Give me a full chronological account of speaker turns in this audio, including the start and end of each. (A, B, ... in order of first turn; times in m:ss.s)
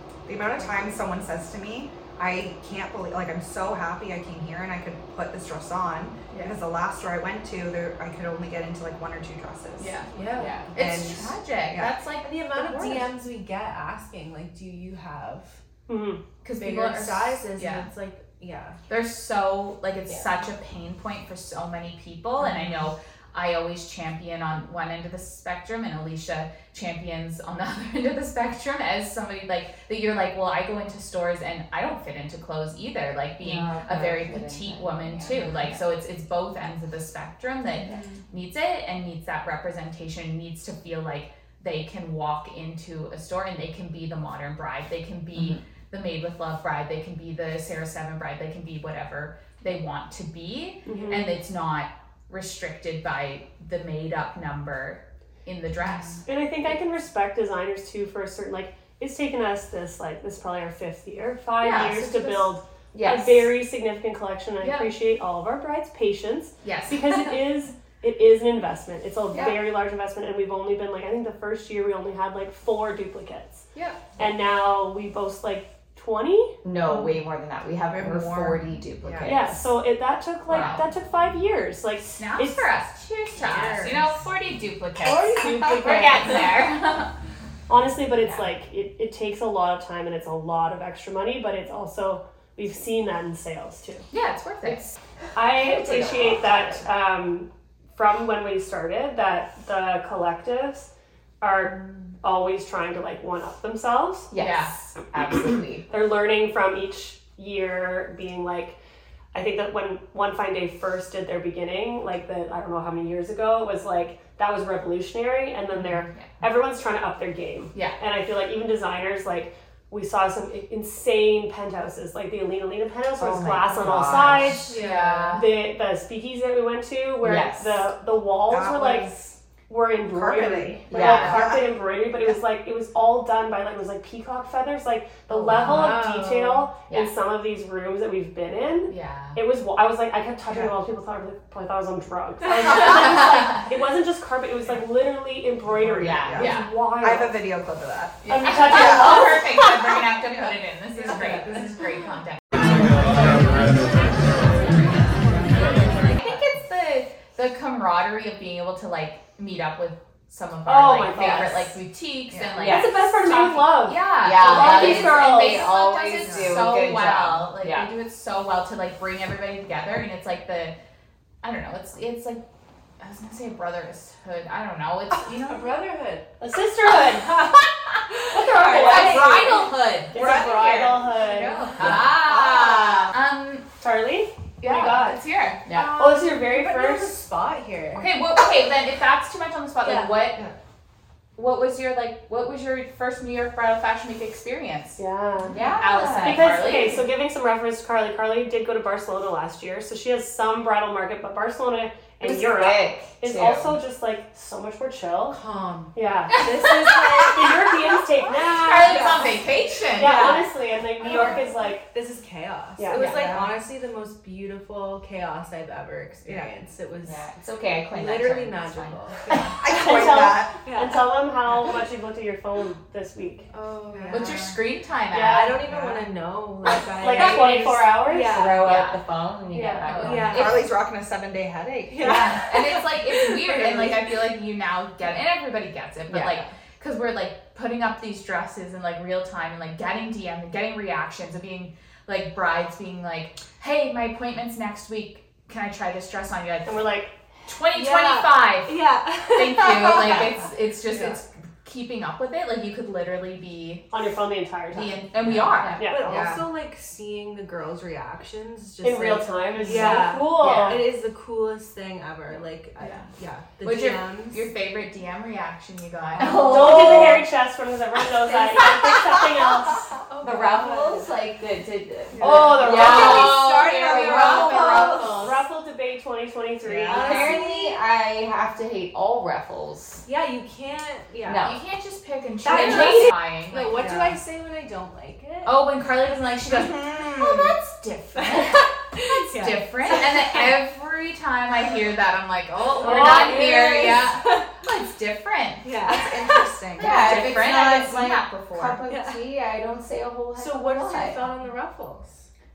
0:00.2-0:10.0 A
0:06.3-0:06.6 B
0:09.8-0:13.1 B
0:10.1-0:10.7 C
0:10.4-0:10.7 D
0:10.7-0:11.9 A
0:12.2-0:15.6 C
0:15.9-0:16.2 E
0:16.4-0:17.9 B
0:16.5-0:18.8 C
0:18.9-0:56.2 B
0:33.4-0:35.8 D
0:50.8-0:51.4 E
0:56.2-1:13.6 E
1:01.6-1:02.6 B
1:02.9-1:03.5 D
1:04.6-1:04.9 B
1:06.6-1:07.3 B
1:14.2-1:16.6 E
1:16.6-1:19.7 D
1:17.9-1:19.3 A
1:18.0-1:18.6 C
1:19.2-1:22.7 E
1:20.5-1:20.8 B
1:22.2-1:27.1 B
1:23.4-1:24.1 C
1:25.0-1:26.5 E
1:27.7-1:34.1 E
1:34.1-1:34.9 B
1:35.3-1:40.9 E
1:35.5-1:36.9 D
1:41.4-1:44.3 E
1:44.3-1:45.9 D
1:44.4-1:44.8 B
1:45.9-1:48.8 E
1:49.3-2:04.6 E
2:03.2-2:05.3 D
2:03.7-2:04.6 A
2:04.6-2:05.4 B
2:04.6-2:05.4 C
2:05.3-2:09.1 E
2:07.2-2:07.8 D
2:08.5-2:09.4 A
2:09.7-2:27.4 E
2:10.1-2:11.7 A
2:10.9-2:11.5 D
2:15.5-2:16.0 B
2:15.5-2:16.7 C
2:18.9-2:19.4 B
2:20.5-2:20.7 A
2:25.7-2:29.4 A
2:26.0-2:26.6 D
2:26.3-2:26.7 B
2:28.2-2:33.7 B
2:28.3-2:29.6 E
2:31.0-2:31.8 C
2:36.1-2:50.8 B
2:40.6-2:41.7 E
2:42.3-2:42.6 A
2:42.5-2:43.0 D
2:42.6-2:45.7 E
2:44.2-2:47.9 D
2:46.2-2:46.7 A
2:51.4-2:52.4 B
2:53.0-2:55.8 B
2:55.2-2:56.3 C
2:56.4-2:57.3 E
2:57.2-3:03.6 B
2:58.2-2:59.7 C
2:58.3-3:01.7 E
3:01.8-3:02.2 D
3:01.8-3:03.1 A
3:03.8-3:05.2 E
3:04.6-3:05.6 B
3:05.6-3:06.0 D
3:05.7-3:08.1 C
3:06.0-3:07.2 E
3:08.0-3:10.5 B
3:09.8-3:10.2 C
3:11.4-3:15.0 B
3:15.0-3:15.5 E
3:15.5-3:15.9 C
3:15.5-3:16.7 D
3:15.5-3:17.0 B
3:16.2-3:25.4 E
3:22.2-3:23.8 D
3:25.3-3:27.7 C
3:25.9-3:29.3 E
3:26.3-3:27.4 B
3:28.4-3:30.5 B
3:28.7-3:29.4 C
3:30.0-3:31.9 E
3:30.0-3:30.4 C
3:31.0-3:37.3 C
3:32.8-3:33.2 E
3:33.0-3:33.6 A
3:36.2-3:36.5 A
3:37.0-3:39.0 D
3:37.8-3:41.0 C
3:39.6-3:40.6 A
3:39.6-3:43.5 E
3:43.5-3:44.5 C
3:43.9-3:44.5 A
3:44.1-3:45.6 B
3:45.1-3:45.6 E
3:45.2-3:48.7 C
3:45.6-3:46.1 A
3:46.6-3:48.7 E
3:47.1-3:47.5 B
3:48.3-3:50.6 D
3:48.6-3:49.0 B
3:49.5-3:49.9 E
3:49.7-3:50.6 C
3:49.9-3:50.7 B
3:50.2-3:52.5 A
3:51.9-3:53.6 C
3:52.0-4:06.8 B
3:53.5-3:53.9 A
3:56.1-3:56.4 D
4:06.6-4:07.1 E
4:07.4-4:13.9 B
4:07.7-4:10.3 C
4:10.9-4:11.2 A
4:13.9-4:15.0 E
4:14.7-4:15.8 B
4:15.8-4:16.3 E
4:15.8-4:24.5 C
4:16.0-4:16.5 A
4:18.8-4:20.8 E
4:19.6-4:20.8 B
4:22.8-4:26.5 B
4:26.2-4:27.1 C
4:26.2-4:27.2 D
4:26.2-4:29.9 E
4:30.0-4:31.1 C
4:30.2-4:35.3 D
4:32.2-4:33.4 E
4:32.2-4:35.3 C
4:32.6-4:35.3 B
4:34.6-4:37.4 E
4:36.6-4:37.0 A
4:36.8-4:37.8 C
4:36.9-4:40.0 D
4:40.0-4:41.5 C
4:41.2-4:41.6 D
4:41.4-4:43.9 B
4:42.4-4:45.6 C
4:42.5-4:42.8 D
4:43.8-4:44.2 A
4:45.4-4:56.0 B
4:48.2-4:50.5 C
4:52.8-4:54.5 C
4:52.8-4:53.4 E
4:55.6-4:57.3 C
4:56.0-4:57.2 A
4:56.8-5:01.2 D
4:56.8-4:58.8 B
4:58.9-4:59.2 C
5:00.3-5:02.3 C